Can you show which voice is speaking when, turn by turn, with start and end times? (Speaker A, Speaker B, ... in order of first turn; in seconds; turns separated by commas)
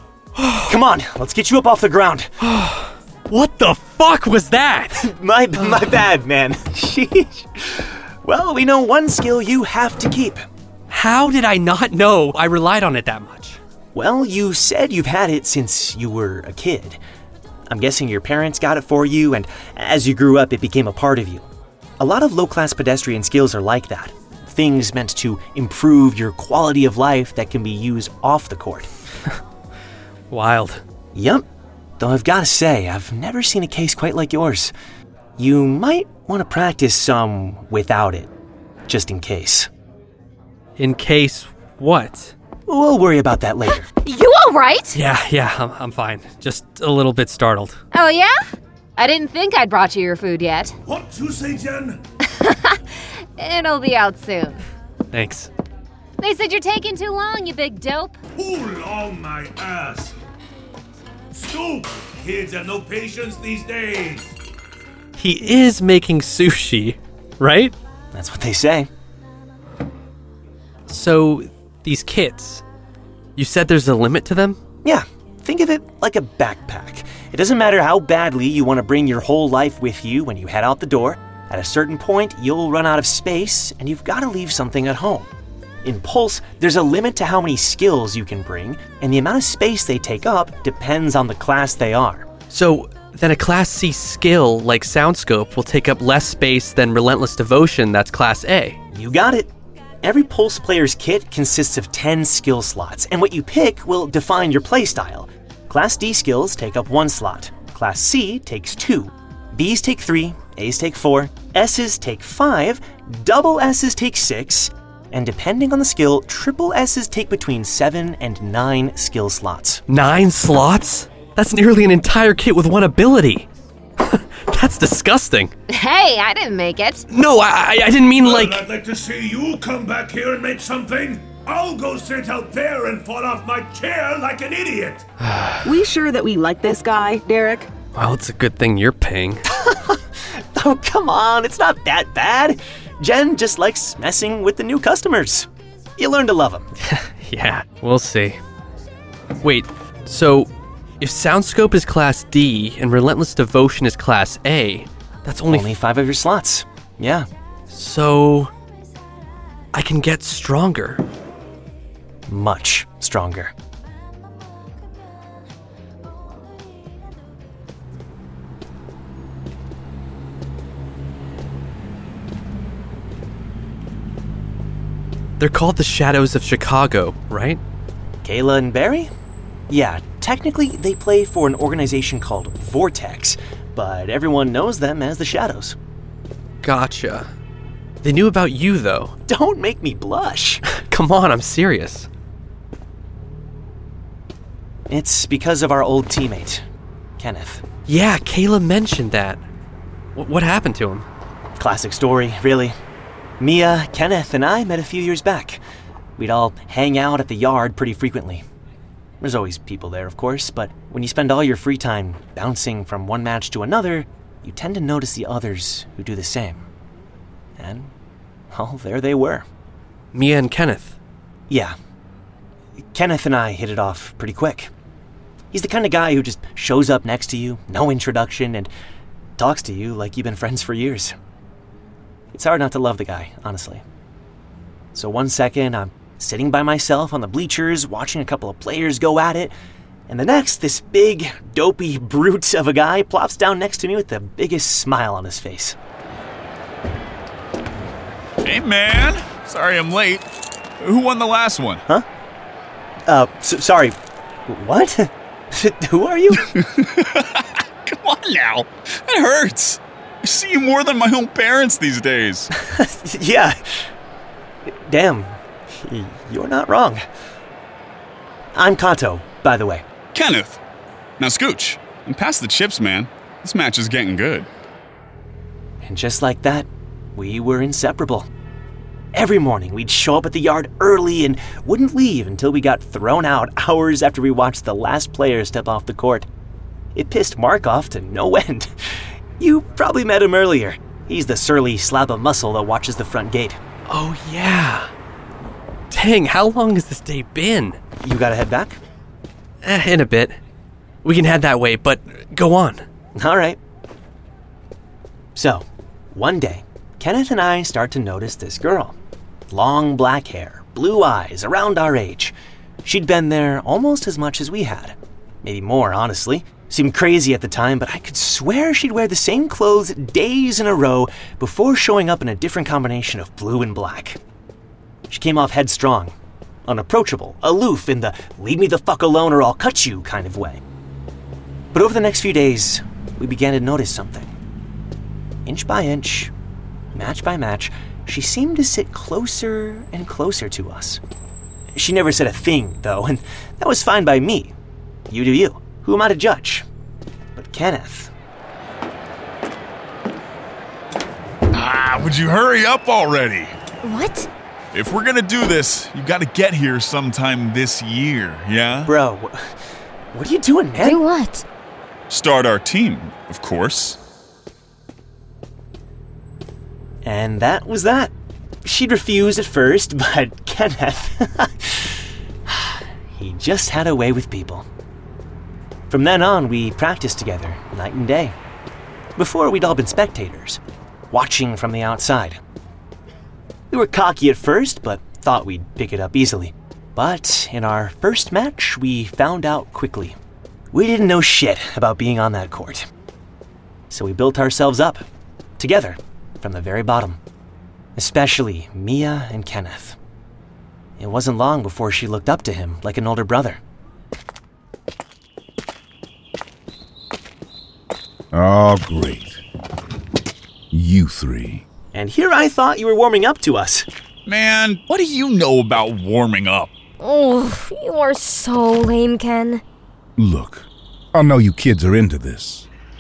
Speaker A: 0.4-0.7, Speaker B: 0.7-2.3, Speaker A: 2.4-6.0, Speaker B: 5.0-10.4, Speaker A: 10.9-13.6, Speaker B: 13.9-17.0, Speaker B: 17.7-21.5, Speaker B: 22.0-28.9, Speaker A: 30.3-30.8, Speaker B: 31.1-31.4, Speaker B: 32.0-34.7, Speaker B: 35.4-38.3, Speaker B: 38.9-39.7, Speaker A: 40.8-42.3, Speaker B: 42.7-43.9, Speaker C: 44.0-45.0, Speaker A: 44.9-47.8, Speaker C: 47.9-48.4, Speaker C: 49.0-50.8, Speaker D: 50.9-51.9, Speaker C: 52.4-54.6, Speaker A: 55.1-55.5, Speaker C: 56.2-58.2, Speaker D: 58.4-60.0, Speaker D: 61.4-63.6, Speaker A: 65.2-67.7, Speaker B: 68.1-68.9, Speaker A: 70.9-72.6, Speaker A: 73.4-74.6, Speaker B: 74.8-85.3, Speaker B: 85.8-92.3, Speaker A: 92.5-98.8, Speaker B: 98.9-99.5, Speaker B: 100.0-119.8, Speaker A: 119.9-123.5, Speaker A: 124.0-125.5, Speaker C: 125.7-127.0, Speaker A: 127.1-128.7, Speaker D: 128.4-135.0, Speaker A: 135.2-135.6, Speaker E: 135.6-137.7, Speaker A: 137.9-139.4, Speaker B: 139.5-146.7, Speaker A: 146.9-148.4, Speaker A: 149.4-155.7, Speaker B: 155.5-157.3, Speaker A: 157.7-158.5, Speaker A: 159.7-161.0, Speaker B: 162.3-163.5, Speaker A: 175.4-177.6, Speaker B: 178.2-179.1, Speaker B: 179.7-185.8, Speaker A: 186.6-187.3, Speaker A: 188.0-189.1, Speaker B: 189.3-190.6, Speaker A: 190.7-192.1, Speaker B: 194.9-196.7, Speaker B: 197.2-197.6, Speaker A: 197.9-199.4, Speaker A: 200.2-201.1, Speaker B: 201.6-202.8, Speaker B: 203.4-205.6, Speaker B: 206.2-208.4, Speaker B: 209.2-216.7, Speaker B: 217.6-217.9, Speaker B: 218.5-219.5, Speaker A: 220.1-221.0, Speaker B: 221.5-221.8, Speaker B: 222.9-224.7, Speaker B: 225.5-228.7, Speaker B: 229.4-231.2, Speaker B: 232.3-233.8, Speaker B: 234.9-239.5, Speaker B: 240.1-245.8, Speaker F: 248.4-250.2, Speaker F: 250.8-251.8, Speaker B: 253.1-254.0, Speaker B: 254.5-256.5, Speaker F: 256.6-262.5, Speaker B: 262.6-263.6, Speaker B: 264.7-267.0, Speaker B: 268.6-269.9, Speaker F: 270.1-270.6, Speaker F: 271.2-274.5, Speaker B: 275.8-278.3, Speaker B: 279.1-286.3, Speaker B: 286.9-288.7, Speaker B: 289.4-293.6, Speaker A: 293.9-294.9, Speaker A: 295.9-297.8, Speaker B: 298.0-298.8, Speaker A: 299.6-300.4, Speaker A: 301.0-302.9, Speaker B: 303.1-303.6, Speaker B: 305.4-308.9, Speaker B: 309.5-324.2, Speaker B: 325.1-326.1, Speaker B: 326.7-330.6, Speaker B: 331.7-334.3, Speaker B: 335.5-336.3, Speaker B: 336.9-341.0, Speaker B: 341.8-344.5, Speaker B: 345.1-346.6, Speaker B: 347.4-348.1, Speaker F: 351.5-353.5, Speaker G: 353.8-354.3, Speaker F: 354.7-358.9, Speaker B: 358.9-359.4, Speaker B: 360.1-361.0, Speaker G: 360.9-361.4, Speaker F: 362.1-364.0, Speaker B: 367.0-368.1, Speaker B: 368.6-371.9, Speaker B: 372.5-374.7, Speaker B: 375.9-378.4, Speaker B: 379.2-380.6, Speaker B: 381.1-382.4, Speaker B: 383.7-390.2, Speaker B: 390.7-392.9, Speaker B: 393.9-395.0, Speaker B: 395.6-397.2, Speaker B: 398.0-400.0, Speaker B: 401.0-403.6, Speaker H: 408.3-409.4, Speaker H: 410.7-411.6, Speaker B: 411.9-413.9, Speaker F: 414.3-416.7, Speaker G: 417.0-419.6, Speaker H: 420.2-422.7